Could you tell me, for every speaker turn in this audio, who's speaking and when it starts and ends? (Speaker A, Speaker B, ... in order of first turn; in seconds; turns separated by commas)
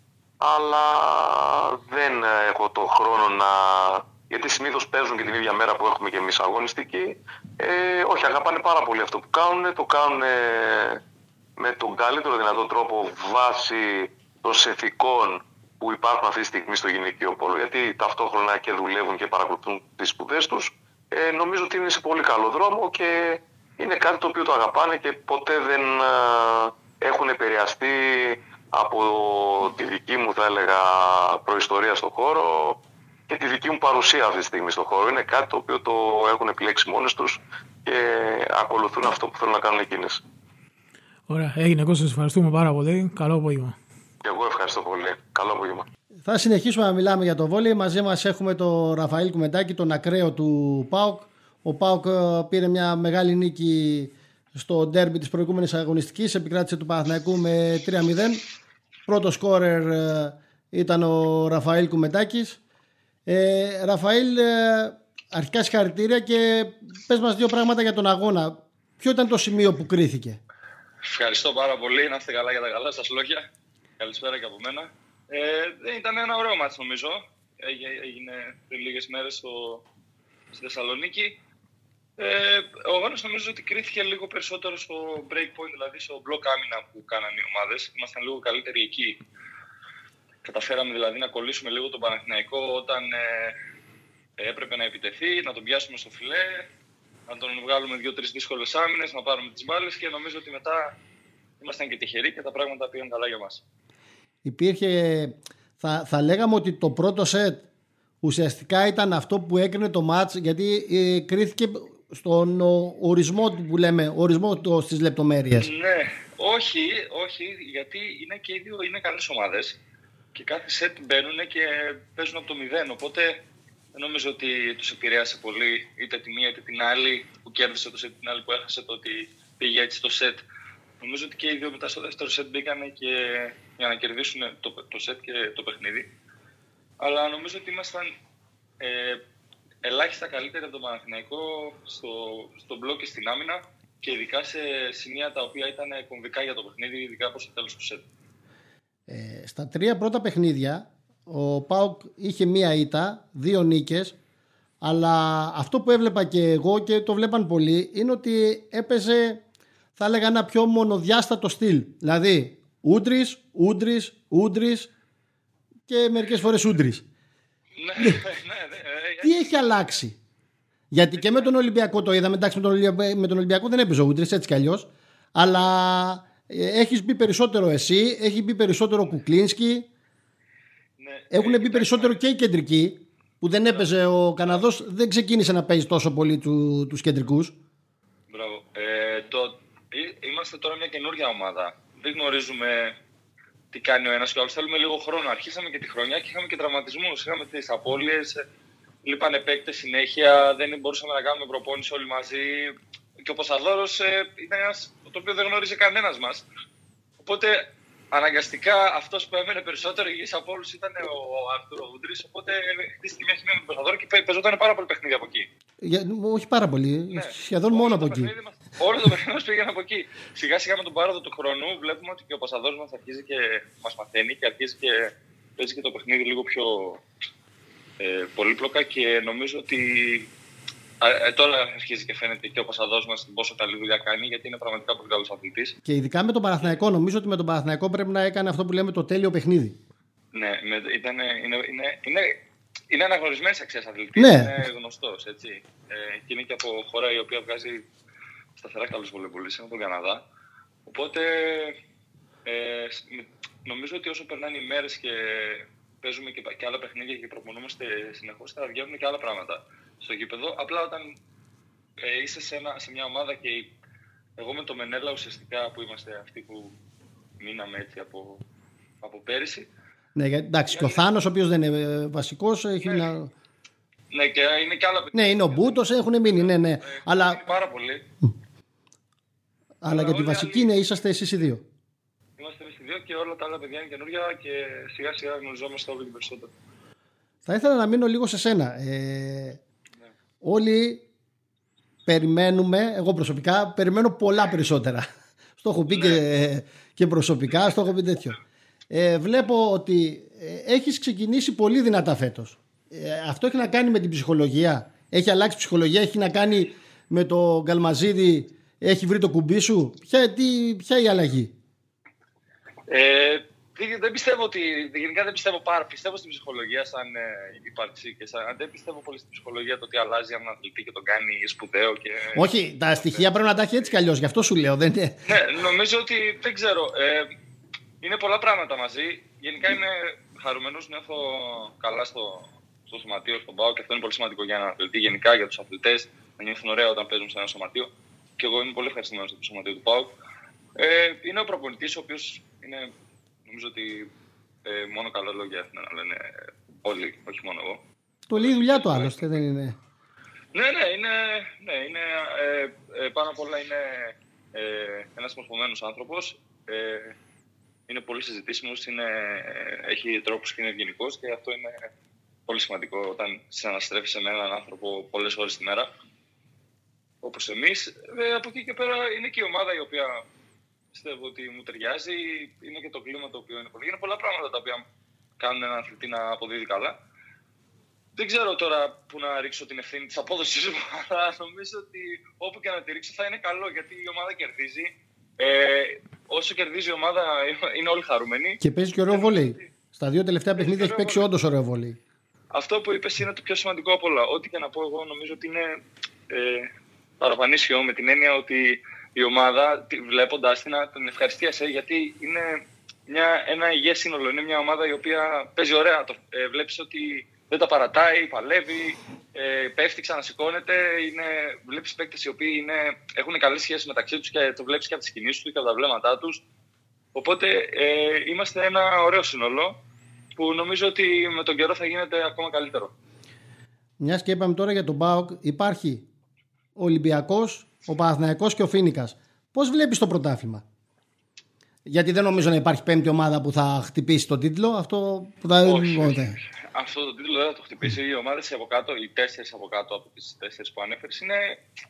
Speaker A: 0.4-11.0, Speaker A: 11.6-40.2, Speaker B: 41.3-43.8, Speaker A: 44.2-45.9, Speaker C: 46.3-58.4, Speaker C: 59.1-62.6, Speaker C: 63.3-70.4, Speaker D: 71.0-73.4, Speaker D: 74.0-79.8, Speaker D: 80.5-81.4, Speaker D: 82.2-89.2, Speaker D: 90.4-93.6, Speaker D: 94.4-96.7, Speaker D: 97.3-100.9, Speaker D: 101.6-103.6, Speaker C: 104.5-107.6, Speaker C: 108.2-115.7, Speaker D: 115.5-119.8, Speaker D: 120.3-123.4, Speaker D: 124.0-130.4, Speaker D: 131.0-136.1, Speaker D: 137.0-138.1, Speaker D: 138.8-139.2, Speaker D: 139.8-148.1, Speaker C: 149.1-154.2, Speaker C: 154.8-159.4, Speaker C: 160.0-164.9, Speaker C: 165.9-167.0, Speaker D: 167.8-169.8, Speaker C: 169.2-170.2, Speaker C: 170.9-179.9, Speaker D: 181.0-182.2, Speaker C: 181.3-187.5, Speaker D: 188.3-193.0, Speaker D: 193.7-198.4, Speaker D: 199.0-206.4, Speaker D: 207.2-215.5, Speaker C: 215.8-218.3, Speaker D: 217.1-227.0, Speaker D: 228.0-230.3, Speaker D: 231.0-235.8, Speaker C: 235.8-239.8, Speaker D: 240.3-247.9, Speaker C: 244.2-244.6, Speaker D: 248.6-250.2, Speaker D: 250.9-251.8, Speaker D: 252.4-261.2, Speaker D: 262.0-263.7, Speaker D: 264.4-266.8, Speaker D: 267.4-268.4, Speaker D: 269.0-269.7, Speaker C: 270.1-273.3, Speaker D: 270.7-271.0, Speaker D: 272.8-273.1, Speaker D: 274.1-278.1, Speaker C: 275.1-277.4, Speaker C: 279.8-281.6, Speaker D: 279.9-280.7, Speaker D: 282.4-286.5, Speaker C: 287.5-289.6, Speaker C: 290.4-291.0, Speaker C: 292.1-295.1, Speaker C: 295.6-298.4, Speaker D: 295.9-296.2, Speaker C: 298.9-311.5, Speaker D: 312.9-323.3, Speaker C: 322.3-325.2, Speaker D: 325.2-327.3, Speaker D: 328.0-340.1, Speaker D: 340.8-342.9, Speaker D: 343.4-344.1, Speaker D: 344.6-347.8, Speaker C: 348.3-349.8, Speaker D: 348.3-349.3, Speaker D: 350.5-357.1, Speaker D: 357.9-361.9, Speaker D: 362.5-365.9, Speaker D: 367.2-370.2, Speaker D: 370.9-374.8, Speaker D: 375.4-377.0, Speaker D: 378.2-389.6, Speaker C: 388.6-392.0, Speaker D: 390.6-391.2, Speaker D: 392.5-395.7, Speaker D: 396.3-396.7, Speaker D: 397.2-416.4, Speaker D: 417.1-419.8, Speaker D: 420.4-422.9, Speaker C: 424.0-426.0, Speaker C: 426.8-430.6, Speaker C: 431.9-436.4, Speaker D: 435.6-441.6